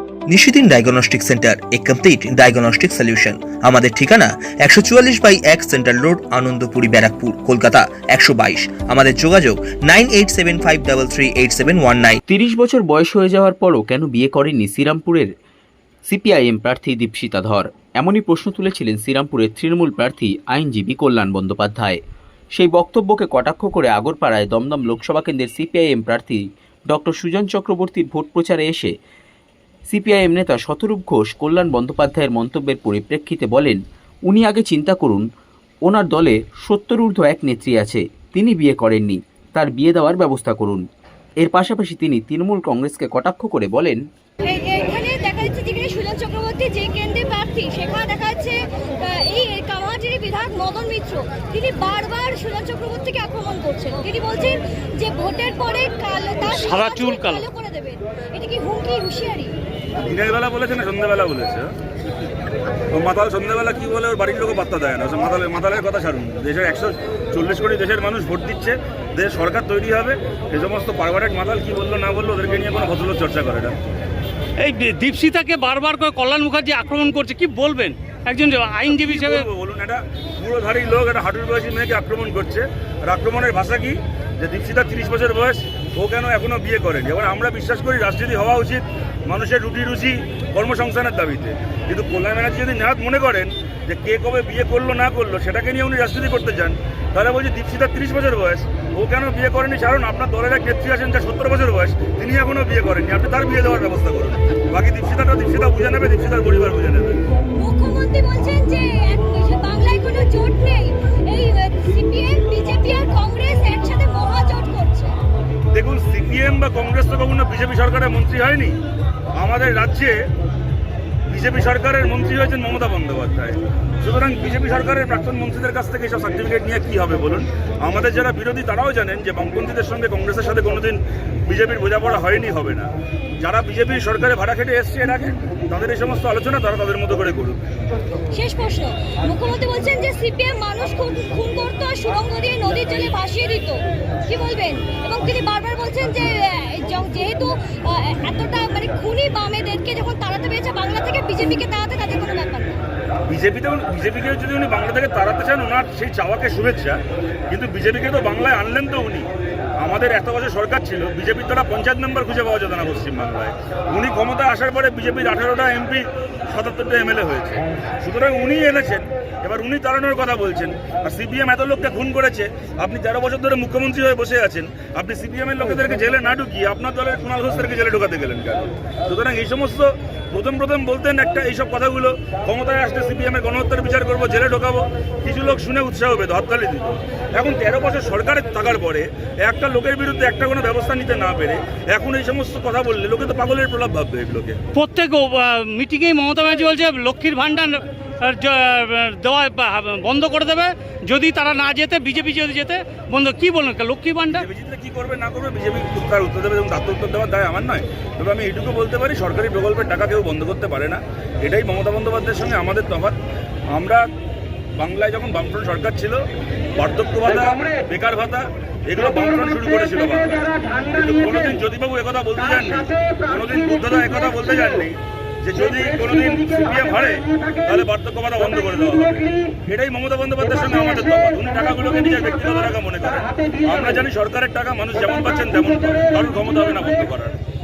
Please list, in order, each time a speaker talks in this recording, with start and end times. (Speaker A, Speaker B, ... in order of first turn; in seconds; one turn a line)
Speaker A: 0.3-12.2
Speaker B: 12.3-15.3
Speaker B: 16.1-22.0
Speaker B: 22.5-28.9
Speaker B: 29.9-35.2
Speaker B: 35.9-40.8
Speaker B: 41.4-44.0
Speaker C: 44.4-59.5
Speaker D: 56.5-57.5
Speaker E: 60.0-61.7
Speaker E: 62.9-73.8
Speaker D: 74.6-79.4
Speaker E: 78.9-107.2
Speaker C: 107.5-115.2
Speaker E: 115.7-118.8
Speaker E: 119.4-120.2
Speaker E: 121.3-137.6
Speaker C: 138.3-152.8
Speaker E: 153.3-159.3
Speaker E: 159.8-194.6
Speaker D: 194.8-204.4
Speaker E: 204.3-213.2
Speaker E: 213.7-214.1
Speaker E: 214.8-216.2
Speaker E: 216.8-237.4